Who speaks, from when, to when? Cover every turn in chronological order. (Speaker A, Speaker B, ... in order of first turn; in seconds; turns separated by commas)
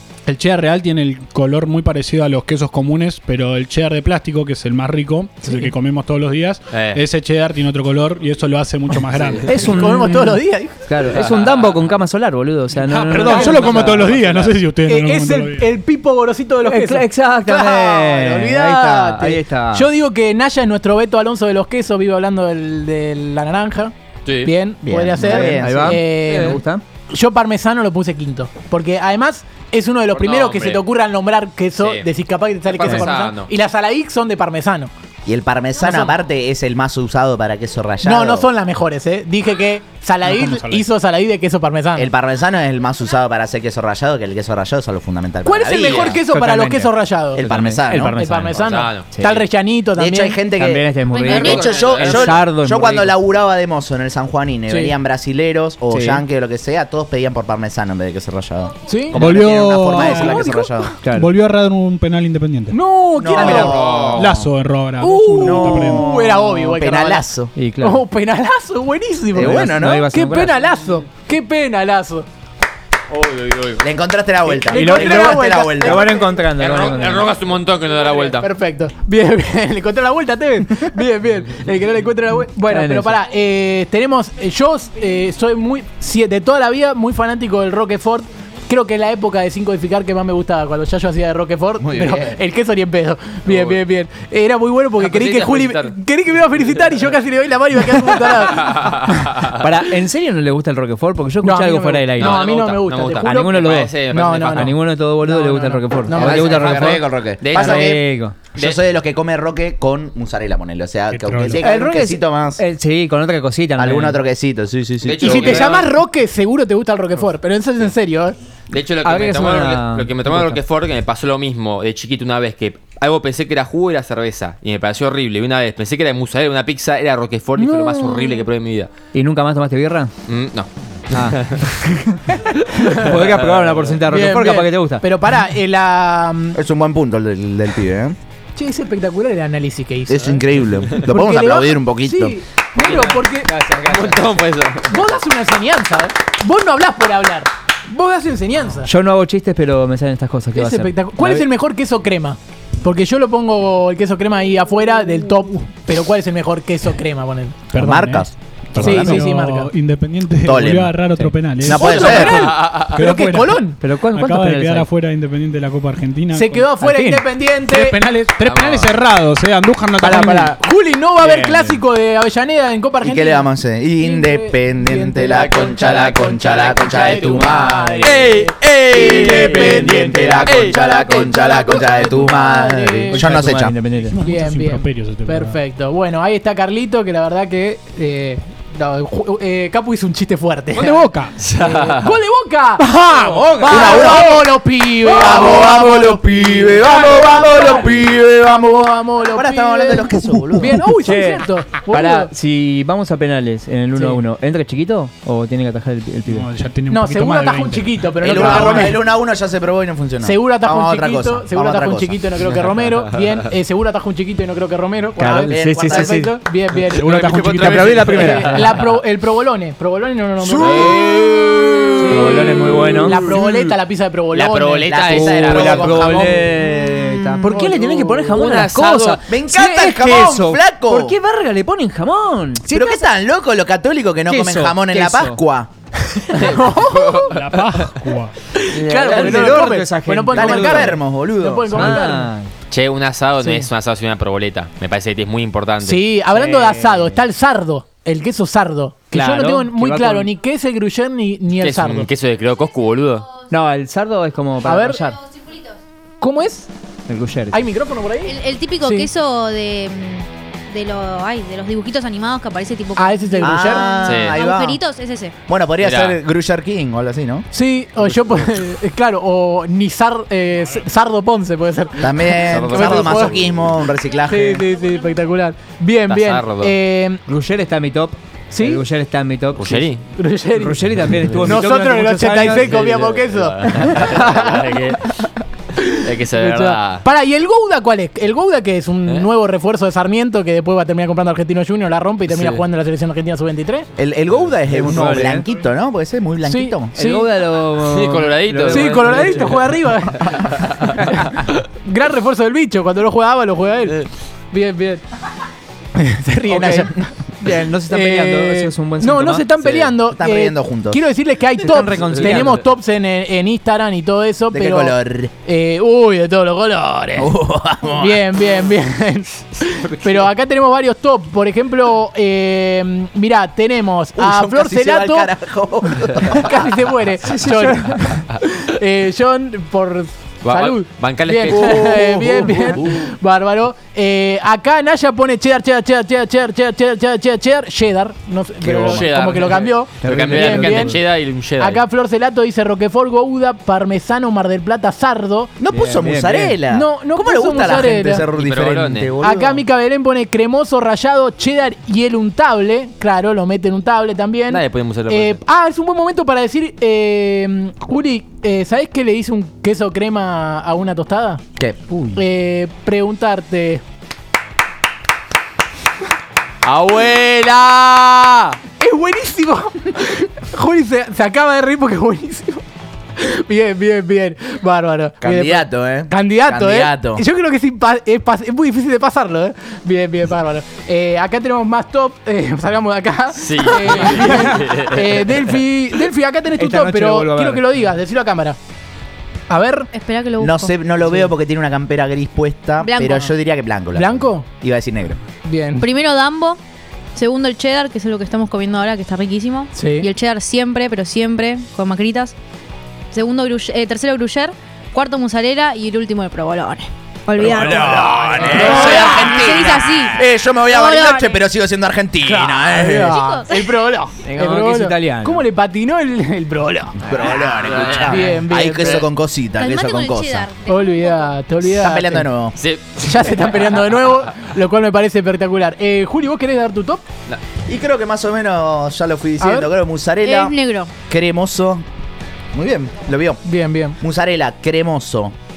Speaker A: 0.3-9.6, Speaker B: 6.7-7.0, Speaker B: 9.1-9.5, Speaker C: 9.5-14.1, Speaker D: 9.5-10.8, Speaker B: 11.1-11.9, Speaker A: 13.0-15.7, Speaker B: 13.1-14.5, Speaker D: 13.2-13.8, Speaker D: 14.8-34.9, Speaker C: 16.7-19.9, Speaker B: 24.3-24.5, Speaker E: 24.8-25.9, Speaker C: 25.2-26.8, Speaker B: 30.1-30.8, Speaker B: 31.8-32.1, Speaker B: 32.7-33.5, Speaker E: 35.3-38.5, Speaker D: 35.8-36.2, Speaker D: 38.0-42.1, Speaker A: 40.2-40.9, Speaker E: 42.0-46.2, Speaker D: 45.5-47.5, Speaker B: 45.8-46.2, Speaker C: 46.1-48.6, Speaker E: 47.4-48.1, Speaker D: 48.0-50.4, Speaker B: 48.5-49.1, Speaker C: 49.1-49.4, Speaker E: 50.0-60.9, Speaker C: 50.6-53.1, Speaker F: 51.1-52.0, Speaker B: 51.3-52.4, Speaker D: 54.7-54.9, Speaker C: 55.9-56.2, Speaker D: 58.9-59.2, Speaker A: 59.1-60.4, Speaker D: 60.0-61.0, Speaker C: 61.0-61.3, Speaker A: 61.1-62.8, Speaker D: 62.7-63.8, Speaker E: 63.2-64.2, Speaker C: 63.4-64.0, Speaker B: 63.5-64.5, Speaker A: 64.2-66.1, Speaker D: 65.0-67.3, Speaker E: 65.4-67.5, Speaker C: 67.6-68.0, Speaker D: 67.8-72.3, Speaker E: 69.3-70.0, Speaker C: 69.4-70.5, Speaker B: 73.1-73.8, Speaker E: 73.8-76.1, Speaker D: 74.5-76.3, Speaker C: 74.7-77.3, Speaker B: 76.6-78.5, Speaker D: 78.0-99.2, Speaker C: 82.7-83.2, Speaker E: 91.8-92.4, Speaker B: 93.5-93.8, Speaker B: 95.0-95.9, Speaker B: 98.6-99.5, Speaker C: 99.6-102.4, Speaker D: 101.4-106.7, Speaker B: 102.2-104.7, Speaker C: 103.2-103.9, Speaker C: 104.5-107.0, Speaker B: 106.1-107.9, Speaker E: 106.2-108.0, Speaker D: 107.5-108.0, Speaker C: 107.6-108.4, Speaker B: 108.5-108.8, Speaker E: 108.5-112.6, Speaker A: 111.1-111.7, Speaker C: 111.6-114.2, Speaker E: 113.8-115.8, Speaker B: 115.0-115.9, Speaker D: 115.2-118.4, Speaker B: 118.7-128.9, Speaker C: 119.0-120.6, Speaker D: 127.6-128.5, Speaker C: 129.1-130.1, Speaker B: 130.3-131.6, Speaker C: 131.1-135.1, Speaker D: 134.1-136.6, Speaker E: 136.6-138.2, Speaker D: 138.6-140.5, Speaker E: 140.1-142.4, Speaker D: 141.0-143.5, Speaker B: 142.8-145.1, Speaker C: 143.7-144.1, Speaker D: 144.9-148.9, Speaker C: 148.8-151.4, Speaker D: 150.5-157.6, Speaker A: 157.7-170.6, Speaker E: 157.7-159.2, Speaker D: 158.8-159.7, Speaker E: 160.4-161.0, Speaker E: 161.6-162.5, Speaker D: 161.7-163.8, Speaker B: 162.0-163.0, Speaker C: 163.8-164.9, Speaker D: 166.3-168.1, Speaker B: 168.4-168.9, Speaker D: 170.0-183.3, Speaker A: 171.2-171.8, Speaker E: 173.0-183.8, Speaker B: 175.3-179.8, Speaker B: 180.4-181.3, Speaker C: 183.1-184.1, Speaker A: 184.0-185.6, Speaker D: 184.2-191.1, Speaker A: 190.7-191.3, Speaker B: 191.4-192.1, Speaker D: 191.6-192.9, Speaker A: 192.8-193.4, Speaker C: 193.2-193.9, Speaker E: 193.5-194.4, Speaker D: 193.5-202.3, Speaker E: 195.1-200.8, Speaker C: 200.6-206.5, Speaker D: 203.9-204.2, Speaker A: 206.3-208.9, Speaker D: 206.9-209.0, Speaker E: 208.2-212.2, Speaker D: 210.2-221.3, Speaker C: 215.2-216.3, Speaker E: 215.4-216.2, Speaker A: 216.9-218.0, Speaker B: 217.0-218.7, Speaker C: 217.6-218.8, Speaker E: 220.4-222.4, Speaker B: 220.6-221.1, Speaker D: 222.0-226.4, Speaker C: 222.1-223.4, Speaker B: 222.7-223.4, Speaker B: 224.3-225.9, Speaker E: 224.9-226.5, Speaker C: 225.1-233.0, Speaker B: 227.2-229.2, Speaker D: 227.5-227.8, Speaker E: 229.2-231.2, Speaker E: 232.6-235.7, Speaker C: 234.3-235.4, Speaker D: 236.3-237.4, Speaker B: 236.3-237.8, Speaker A: 237.3-238.3, Speaker D: 238.5-242.3, Speaker C: 238.7-241.0, Speaker B: 239.0-239.5, Speaker E: 240.3-242.0, Speaker C: 241.7-242.5, Speaker B: 242.7-246.1, Speaker D: 243.4-243.7, Speaker D: 245.8-252.1, Speaker C: 246.3-247.2, Speaker C: 249.1-250.3, Speaker B: 251.6-253.3, Speaker C: 253.5-255.2, Speaker D: 254.6-255.2, Speaker D: 256.2-256.7, Speaker C: 257.1-257.6, Speaker D: 257.5-259.1, Speaker F: 258.2-265.4, Speaker D: 262.9-263.9, Speaker E: 263.4-264.8, Speaker B: 264.0-264.4, Speaker E: 265.5-267.5, Speaker B: 265.8-266.2, Speaker D: 267.5-273.4, Speaker E: 272.0-274.7, Speaker B: 272.4-273.6, Speaker D: 274.3-277.2, Speaker B: 276.1-276.7, Speaker C: 277.3-279.9, Speaker D: 278.5-278.8, Speaker B: 279.6-280.0, Speaker D: 280.2-280.8, Speaker C: 280.6-282.7, Speaker D: 281.4-285.3, Speaker B: 282.5-285.1, Speaker D: 285.8-293.9, Speaker B: 286.0-287.0, Speaker C: 286.4-286.7, Speaker B: 292.3-292.6, Speaker E: 294.0-296.9, Speaker C: 294.7-295.4, Speaker D: 296.4-297.3, Speaker C: 296.9-299.6, Speaker B: 297.8-299.5, Speaker D: 298.7-305.0, Speaker D: 306.0-306.9, Speaker E: 306.5-307.1, Speaker C: 307.4-309.5, Speaker D: 307.9-325.3, Speaker B: 309.6-309.9, Speaker E: 310.1-311.0, Speaker C: 311.6-312.6, Speaker E: 314.5-315.3, Speaker E: 317.2-318.2, Speaker E: 324.2-326.7, Speaker D: 326.1-341.0, Speaker E: 327.2-327.8, Speaker B: 330.4-332.9, Speaker E: 331.6-332.0, Speaker B: 338.6-341.8, Speaker C: 340.0-341.0, Speaker D: 341.6-345.5, Speaker E: 345.6-349.6, Speaker C: 345.7-346.6, Speaker D: 346.7-348.3, Speaker B: 348.4-349.1, Speaker D: 349.2-361.4, Speaker B: 354.5-355.4, Speaker E: 361.6-361.9, Speaker D: 362.1-363.8, Speaker B: 366.6-368.5, Speaker D: 368.8-372.6, Speaker D: 373.2-388.6, Speaker E: 375.2-377.2, Speaker B: 383.4-385.3, Speaker C: 386.6-387.6, Speaker D: 389.5-389.9, Speaker F: 389.9-390.7, Speaker E: 390.4-395.2, Speaker F: 392.8-393.3, Speaker D: 393.9-394.5, Speaker D: 395.4-395.9, Speaker F: 395.8-396.6, Speaker F: 397.2-402.4, Speaker D: 399.8-400.1, Speaker F: 403.1-411.4, Speaker E: 407.4-413.2, Speaker D: 408.3-409.2, Speaker D: 412.2-417.0, Speaker F: 413.1-413.8, Speaker C: 414.3-415.4, Speaker E: 417.0-420.5, Speaker C: 417.1-417.5, Speaker B: 417.6-419.0, Speaker D: 418.1-419.1, Speaker F: 419.6-421.3, Speaker D: 420.7-422.3, Speaker E: 421.6-422.6, Speaker B: 422.6-423.6, Speaker D: 423.0-427.0, Speaker E: 427.7-430.6, Speaker D: 429.4-429.7, Speaker F: 430.2-430.9, Speaker E: 431.1-431.9, Speaker E: 432.5-433.4, Speaker D: 433.4-434.0, Speaker E: 434.0-435.3